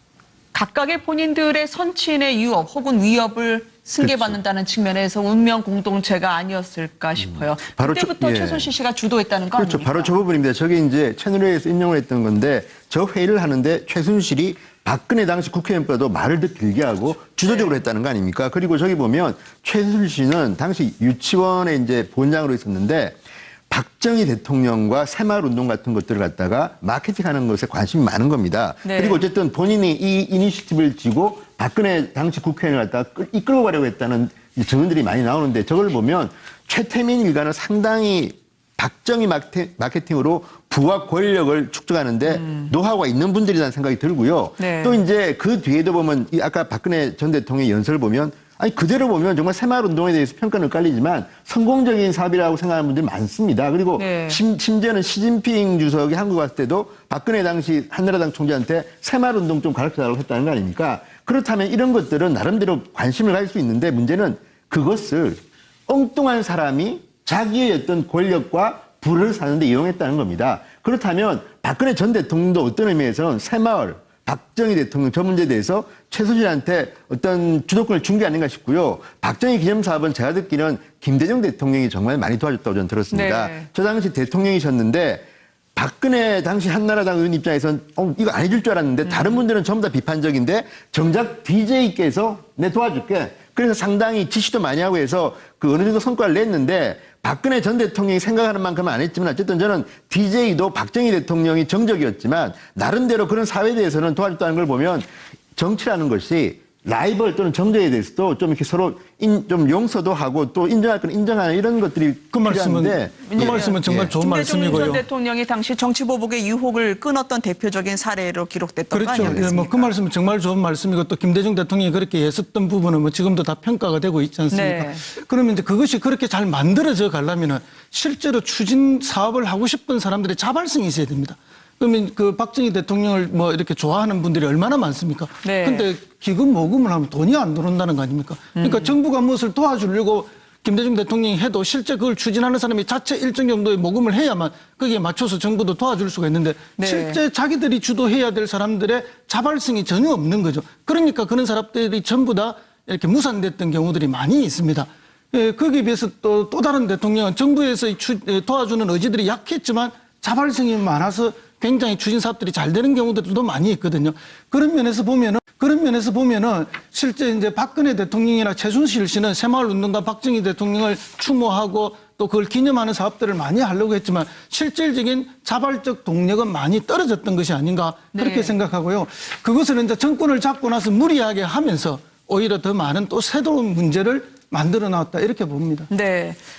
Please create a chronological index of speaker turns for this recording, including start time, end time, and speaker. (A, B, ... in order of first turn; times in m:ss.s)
0:00.5-0:10.1 A
0:04.0-0:04.4 B
0:07.2-0:08.7 B
0:09.6-0:23.2 B
0:17.5-0:17.7 A
0:23.7-1:54.2 B
0:28.8-0:29.2 A
0:42.2-0:42.7 A
0:44.6-0:45.0 A
0:54.0-0:54.4 A
1:23.1-1:23.7 A
1:29.0-1:29.4 A
1:52.3-1:55.0 C
1:53.2-1:59.9 A
1:58.9-3:05.9 C
1:59.2-1:59.4 B
2:04.5-2:05.0 A
2:15.4-2:15.9 A
2:18.6-2:18.9 A
2:26.8-2:27.2 A
2:58.1-2:58.6 A
3:05.9-3:06.4 A